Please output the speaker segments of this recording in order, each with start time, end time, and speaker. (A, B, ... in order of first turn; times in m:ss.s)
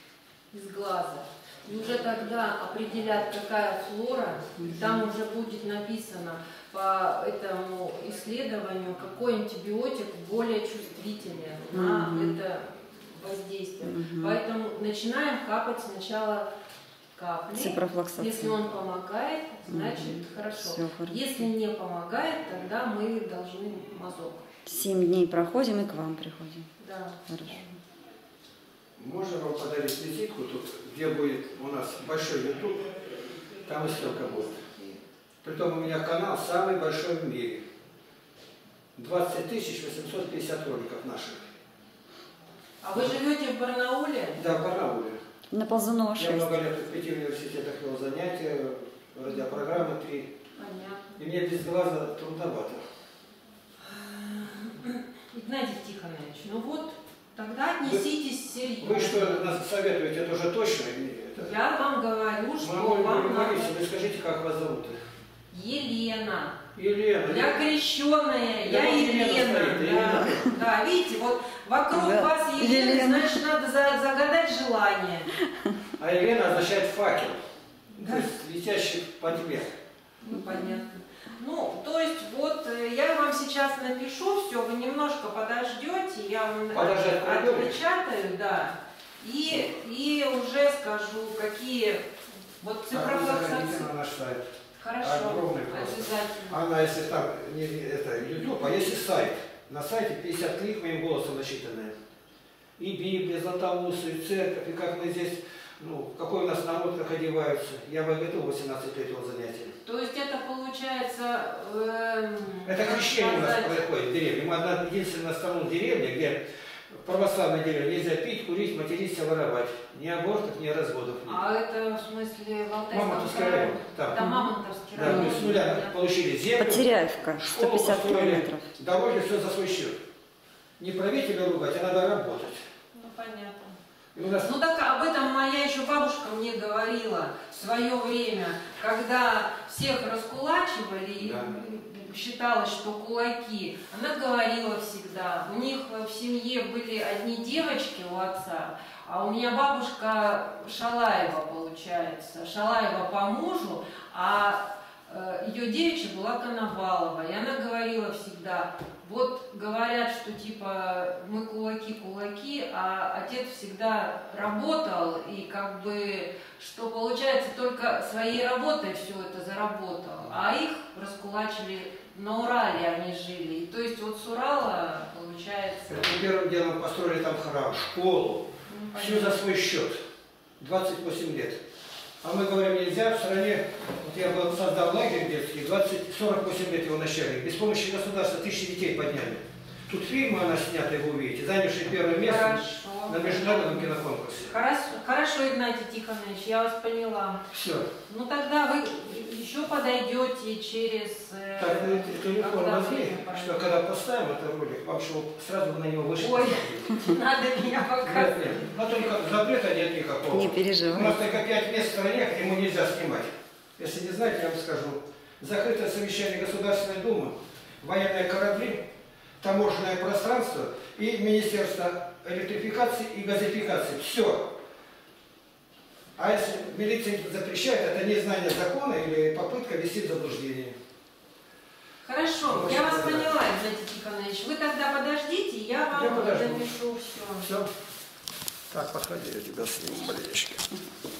0:00.5-0:16.5 A
0:11.7-0:12.4 B
0:13.8-0:14.4 B
0:17.2-0:24.4 A
0:17.5-0:18.6 B
0:19.7-0:21.5 B
0:24.6-0:26.7 B
0:26.8-0:27.6 A
0:27.3-0:27.7 B
0:29.0-0:32.8 C
0:33.6-0:34.6 C
0:34.1-0:35.0 A
0:35.4-0:37.6 C
0:39.0-0:41.5 C
0:42.8-0:44.4 A
0:44.4-0:45.2 C
0:45.5-0:46.6 B
0:46.2-0:50.3 C
0:50.5-0:51.2 A
0:51.2-0:52.8 C
0:53.8-0:59.6 A
0:58.8-1:01.5 C
1:01.4-1:03.7 A
1:02.6-1:04.9 C
1:05.5-1:06.6 A
1:06.7-1:07.6 C
1:07.2-1:15.3 A
1:08.6-1:10.5 C
1:10.2-1:10.5 B
1:11.9-1:13.4 B
1:16.0-1:17.4 C
1:18.0-1:19.7 C
1:18.0-1:18.3 A
1:20.2-1:32.1 A
1:20.4-1:20.6 B
1:26.7-1:27.8 C
1:32.6-1:33.9 A
1:32.9-1:34.5 C
1:34.8-1:36.6 A
1:35.0-1:41.9 C
1:42.8-1:49.7 C
1:49.8-1:53.8 A
1:52.6-1:56.4 C
1:57.0-2:01.4 C
2:01.2-2:06.0 A
2:02.9-2:04.2 C
2:04.1-2:04.5 B
2:04.9-2:10.0 C
2:05.0-2:05.5 B
2:06.6-2:08.7 B
2:10.8-2:12.6 C
2:12.9-2:13.8 A
2:14.1-2:14.5 C
2:14.4-2:56.2 A
2:21.2-2:21.5 C
2:55.9-3:00.0 C
2:58.7-2:59.4 A
3:00.6-3:01.6 C
3:02.2-3:14.5 C
3:12.2-3:17.4 A
3:17.5-3:17.9 C
3:18.0-3:23.6 A
3:21.6-3:26.9 C
3:26.2-3:28.7 A
3:28.0-3:38.8 C
3:30.3-3:31.2 B
3:39.4-3:44.5 C
3:46.2-3:50.7 C
3:52.0-3:57.5 A
3:52.5-3:53.3 C
3:55.9-3:56.7 C
3:58.7-4:00.6 C